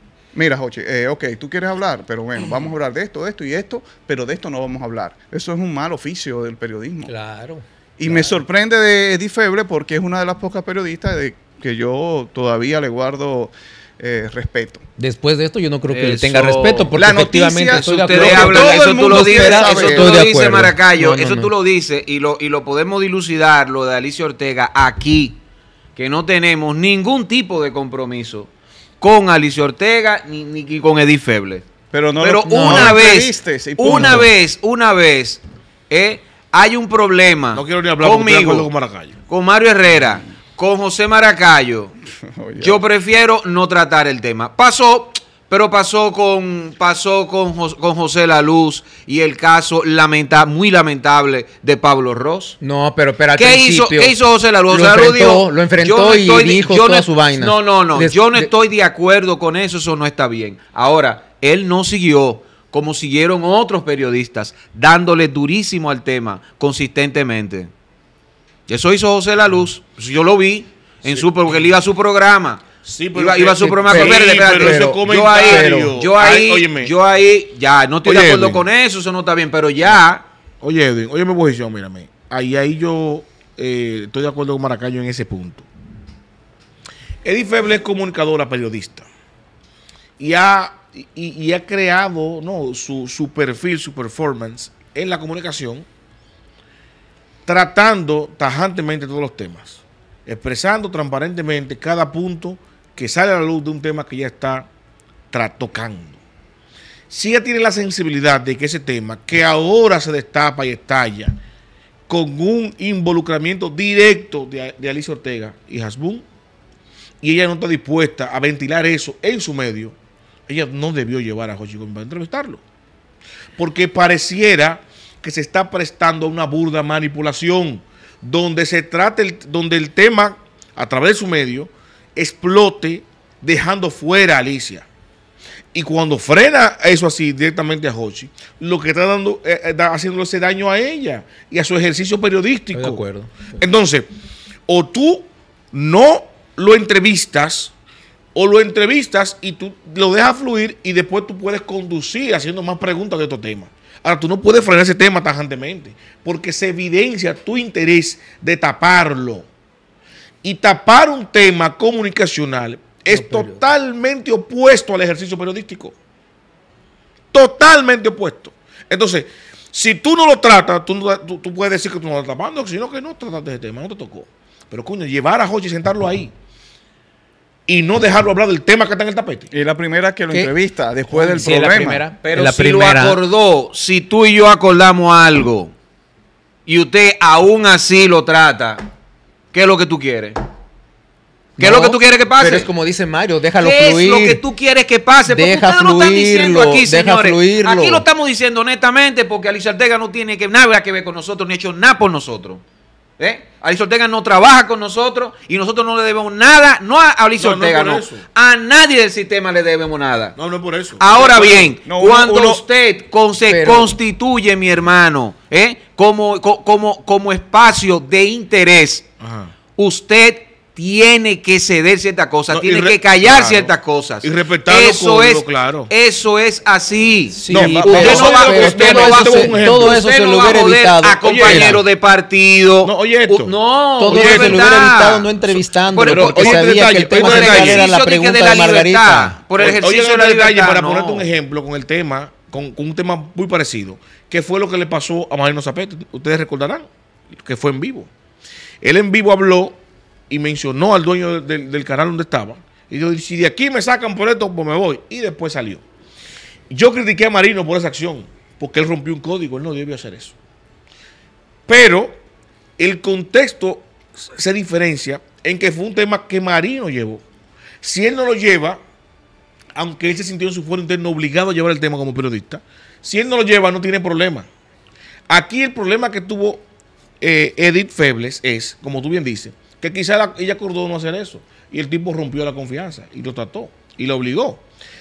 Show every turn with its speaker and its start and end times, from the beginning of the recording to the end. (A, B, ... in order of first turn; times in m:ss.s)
0:00.3-0:07.1 A
0:07.0-0:08.4 B
0:08.0-0:14.8 A
0:15.0-0:21.5 B
0:15.9-0:16.9 C
0:16.9-0:20.1 A
0:17.7-0:25.4 C
0:26.0-0:31.6 C
0:31.9-0:34.3 A
0:32.2-0:38.7 C
0:32.5-0:33.0 B
0:33.8-0:34.2 B
0:37.5-0:39.1 D
0:39.3-0:41.9 C
0:42.3-0:42.8 A
0:42.6-0:52.6 C
0:52.6-0:54.2 B
0:53.4-1:07.7 C
0:54.7-0:58.5 B
1:08.7-1:12.6 C
1:12.8-1:16.9 D
1:13.1-1:20.2 C
1:13.6-1:15.9 B
1:18.0-1:18.6 D
1:20.6-1:25.6 D
1:27.2-1:29.0 D
1:30.2-1:35.8 D
1:37.4-1:44.7 D
1:45.3-1:46.2 D
1:47.1-1:51.4 D
1:52.1-1:56.2 D
1:57.2-1:59.9 D
2:00.5-2:02.6 D
2:03.6-2:14.8 D
2:15.7-2:23.0 D
2:22.7-2:23.3 B
2:23.6-2:24.1 D
2:24.7-2:27.7 D
2:28.3-2:39.5 D
2:40.4-2:45.9 D
2:43.1-2:43.6 B
2:47.3-2:56.3 D
2:57.7-2:59.5 D
2:59.5-3:02.0 A
3:01.1-3:03.2 B
3:02.2-3:05.7 C
3:06.7-3:08.9 C
3:09.5-3:10.4 C
3:11.6-3:14.4 B
3:11.6-3:12.7 C
3:13.6-3:22.6 C
3:15.3-3:18.0 B
3:23.2-3:30.4 C
3:27.4-3:28.2 D
3:30.4-3:31.7 D
3:31.0-3:39.0 C
3:31.8-3:32.6 A
3:33.5-3:33.9 B
3:39.2-3:39.5 D
3:39.8-3:55.3 C
3:42.5-3:45.9 D
3:47.3-3:51.8 B
3:47.5-3:50.0 D
3:47.5-3:48.4 A
3:51.2-3:51.8 D
3:52.8-3:53.5 D
3:54.0-3:59.4 B
3:54.1-3:54.7 D
3:55.9-4:01.3 C
3:56.0-3:57.9 D
3:59.6-4:06.9 D
4:07.4-4:08.1 D
4:08.8-4:15.8 D
4:16.7-4:20.3 D
4:21.7-4:22.2 D
4:22.8-4:27.2 D
4:27.8-4:28.8 D
4:29.7-4:34.5 D
4:35.3-4:36.6 D
4:37.2-4:44.6 D